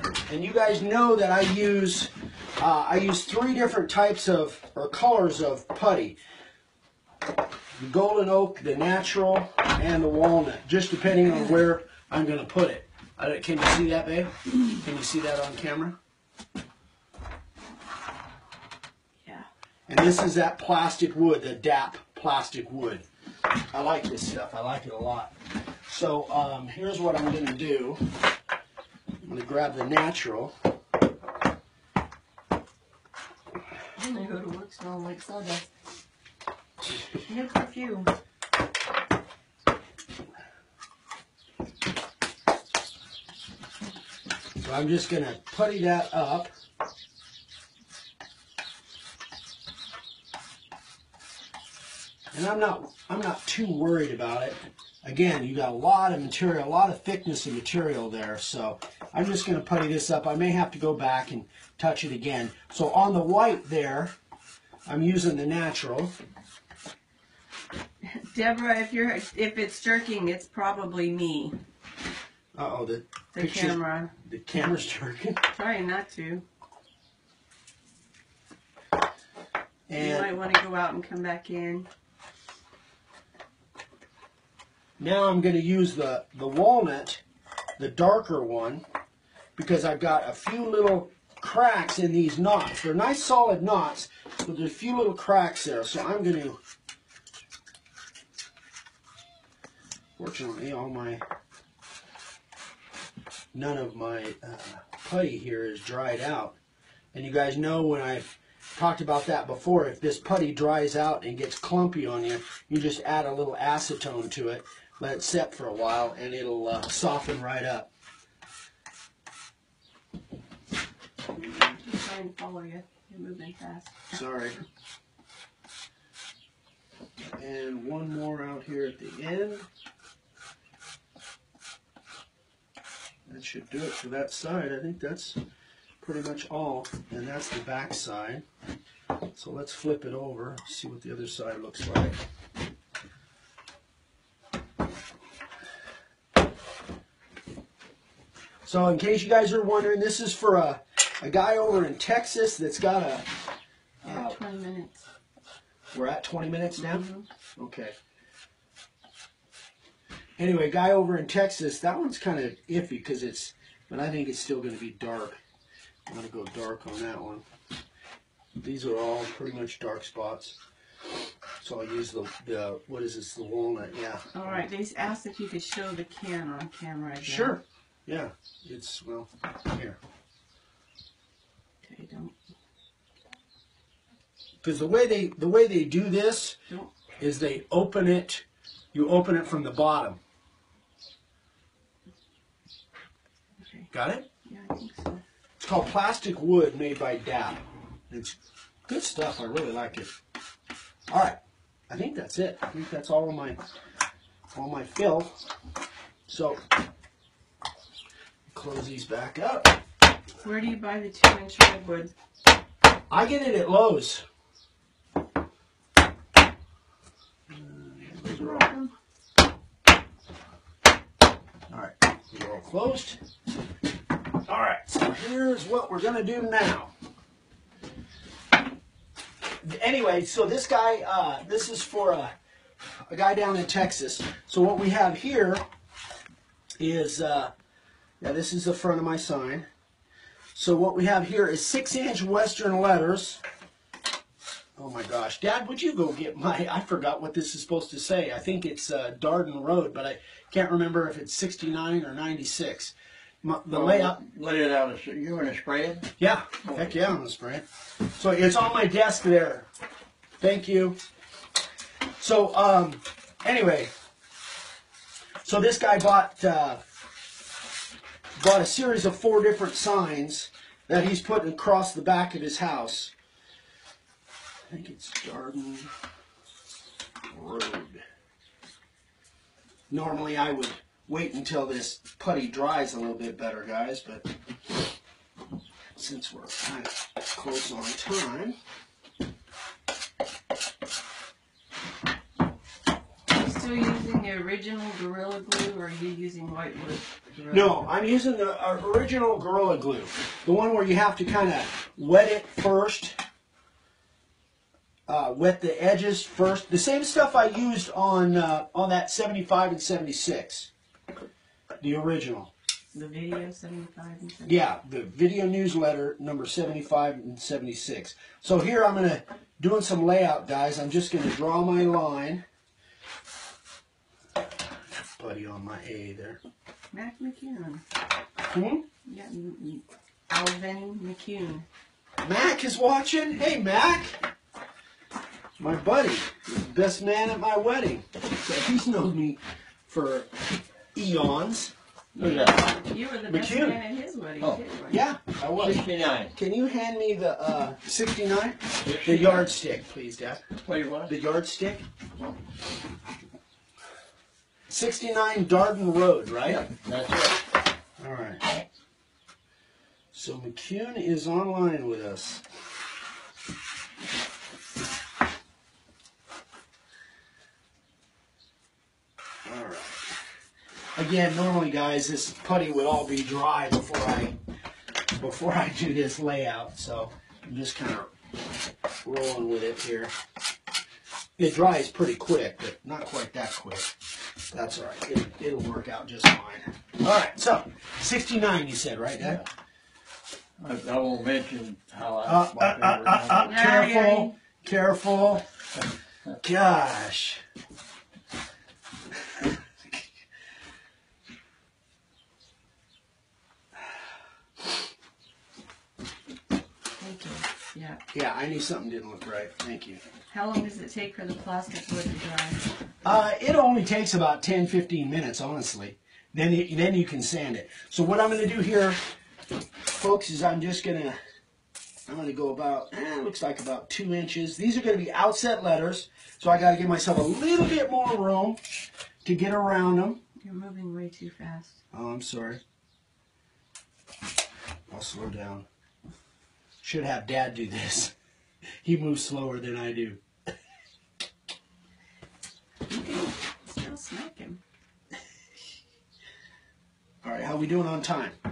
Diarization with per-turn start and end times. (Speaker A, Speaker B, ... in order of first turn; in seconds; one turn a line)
Speaker A: 0.3-6.2
Speaker A: 7.8-16.0
Speaker A: 19.9-23.0
Speaker A: 23.7-25.4
Speaker A: 25.9-28.0
Speaker A: 29.2-30.5
Speaker B: 34.0-35.7
Speaker B: 37.2-38.1
Speaker A: 44.6-46.5
Speaker A: 52.3-64.1
Speaker A: 64.9-66.1
Speaker B: 68.0-71.6
Speaker A: 72.5-75.4
Speaker B: 73.3-74.1
Speaker B: 75.5-76.4
Speaker A: 79.9-80.3
Speaker B: 79.9-81.9
Speaker A: 85.0-87.2
Speaker A: 87.8-88.8
Speaker A: 89.5-96.6
Speaker A: 100.2-101.2
Speaker A: 103.5-106.6
Speaker A: 107.1-117.9
Speaker B: 121.4-124.1
Speaker A: 124.1-124.6
Speaker A: 127.4-129.7
Speaker A: 133.3-135.4
Speaker A: 136.0-138.4
Speaker A: 139.3-142.2
Speaker A: 148.6-153.3
Speaker A: 154.0-154.4
Speaker B: 154.0-155.0
Speaker A: 155.9-157.0
Speaker B: 156.8-157.2
Speaker A: 157.6-157.9
Speaker A: 160.4-165.4
Speaker A: 166.1-167.4
Speaker A: 168.6-170.6
Speaker A: 171.6-174.5
Speaker B: 174.3-177.6
Speaker A: 177.2-180.0
Speaker B: 181.8-182.3
Speaker A: 184.6-186.6
Speaker A: 187.2-190.2
Speaker B: 193.6-193.9
Speaker A: 193.9-194.2
Speaker B: 194.4-195.2
Speaker A: 195.6-198.4
Speaker A: 198.9-200.1
Speaker A: 201.1-201.4
Speaker A: 201.9-203.6
Speaker A: 204.5-205.4
Speaker A: 206.3-206.6
Speaker A: 208.5-209.8
Speaker B: 210.4-212.1
Speaker A: 213.1-214.2
Speaker A: 217.5-218.7
Speaker B: 218.3-218.9
Speaker A: 221.7-223.2
Speaker A: 224.5-226.9
Speaker A: 229.4-232.3
Speaker A: 233.1-235.6
Speaker A: 236.8-237.5
Speaker A: 238.2-239.7
Speaker A: 240.5-243.4
Speaker A: 244.8-254.2
Speaker C: 253.7-256.1
Speaker A: 256.2-259.7
Speaker A: 260.4-261.0
Speaker A: 262.2-263.9
Speaker A: 265.4-266.8
Speaker A: 268.4-273.1
Speaker A: 274.7-275.9
Speaker A: 277.3-278.0
Speaker A: 279.9-284.3
Speaker A: 285.9-288.6
Speaker B: 293.3-297.8
Speaker A: 297.5-303.2
Speaker A: 305.1-310.7
Speaker A: 311.8-312.5
Speaker B: 312.9-314.6
Speaker A: 314.5-322.4
Speaker A: 324.9-326.4
Speaker B: 326.9-327.8
Speaker A: 328.4-328.9
Speaker B: 329.0-331.7
Speaker A: 332.2-334.2
Speaker A: 335.6-340.4
Speaker A: 340.9-341.7
Speaker B: 342.1-345.0
Speaker C: 342.2-342.6
Speaker A: 343.3-343.8
Speaker A: 344.9-345.8
Speaker C: 345.6-346.4
Speaker A: 346.4-350.4
Speaker C: 348.9-349.4
Speaker C: 350.6-351.1
Speaker A: 351.1-351.8
Speaker A: 354.7-356.6
Speaker C: 356.4-357.4
Speaker A: 358.0-358.4
Speaker A: 360.1-362.4
Speaker A: 369.4-370.1
Speaker A: 370.9-374.4
Speaker A: 375.2-378.1
Speaker A: 379.0-380.1
Speaker A: 381.4-383.9
Speaker A: 384.5-389.4
Speaker C: 390.6-393.6
Speaker A: 392.2-395.4
Speaker B: 393.4-394.4
Speaker A: 396.4-397.4
Speaker A: 399.3-400.1
Speaker B: 407.0-408.0
Speaker A: 408.1-410.0
Speaker B: 410.3-412.6
Speaker A: 413.0-419.0
Speaker A: 419.9-421.2
Speaker A: 422.1-428.6
Speaker A: 429.2-430.2
Speaker B: 430.4-431.8
Speaker A: 431.9-432.6
Speaker A: 434.9-435.7
Speaker A: 436.8-438.1
Speaker A: 438.8-440.2
Speaker B: 442.9-444.6
Speaker A: 447.2-448.4